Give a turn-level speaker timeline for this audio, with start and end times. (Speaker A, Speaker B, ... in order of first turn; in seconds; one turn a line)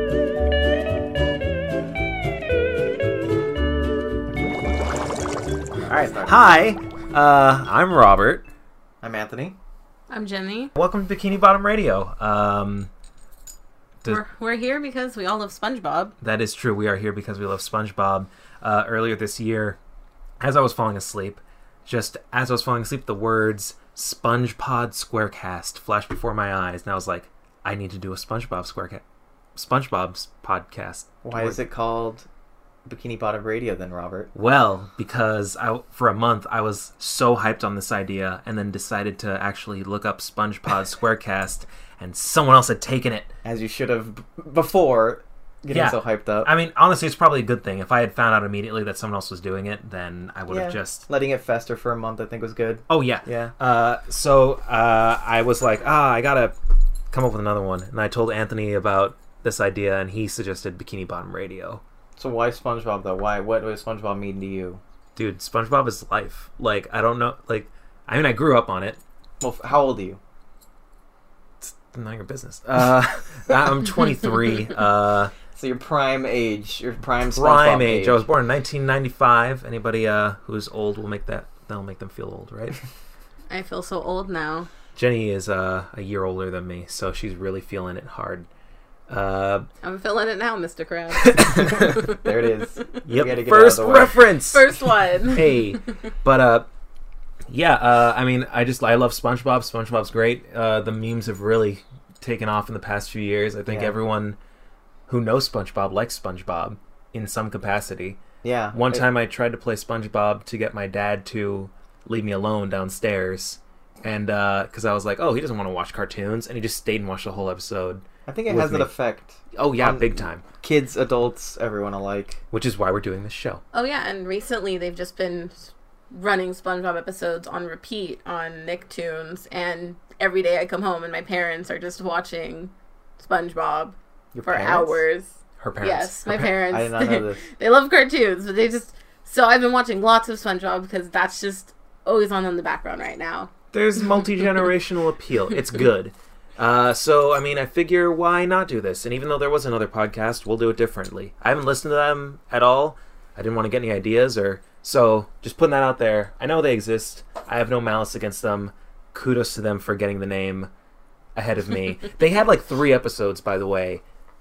Speaker A: 5.9-6.5
Speaker B: 6.1-8.4
Speaker A: 9.0-9.6
Speaker C: 10.1-10.7
Speaker B: 10.8-12.9
Speaker C: 14.1-16.1
Speaker B: 16.2-19.8
Speaker B: 20.4-29.0
Speaker B: 29.6-31.6
Speaker A: 31.2-32.3
Speaker A: 32.9-34.3
Speaker B: 34.3-43.3
Speaker A: 43.4-46.5
Speaker B: 45.7-51.1
Speaker A: 50.5-53.5
Speaker B: 52.9-56.5
Speaker B: 57.1-61.8
Speaker A: 62.2-64.8
Speaker B: 65.2-69.0
Speaker A: 69.4-70.2
Speaker B: 71.6-75.3
Speaker A: 75.5-78.2
Speaker B: 77.3-82.8
Speaker C: 83.5-84.7
Speaker B: 85.0-88.5
Speaker B: 89.1-89.7
Speaker C: 89.8-92.2
Speaker B: 91.2-91.8
Speaker A: 91.6-94.2
Speaker B: 93.0-94.8
Speaker C: 94.4-95.7
Speaker B: 95.3-96.7
Speaker B: 97.5-104.4
Speaker A: 103.7-103.9
Speaker B: 105.1-108.2
Speaker A: 108.4-109.0
Speaker B: 108.7-118.9
Speaker A: 118.3-122.4
Speaker B: 119.5-120.4
Speaker B: 122.5-123.6
Speaker C: 123.7-143.5
Speaker A: 134.3-135.0
Speaker B: 135.6-136.5
Speaker A: 136.6-137.4
Speaker B: 143.7-160.7
Speaker B: 161.3-164.0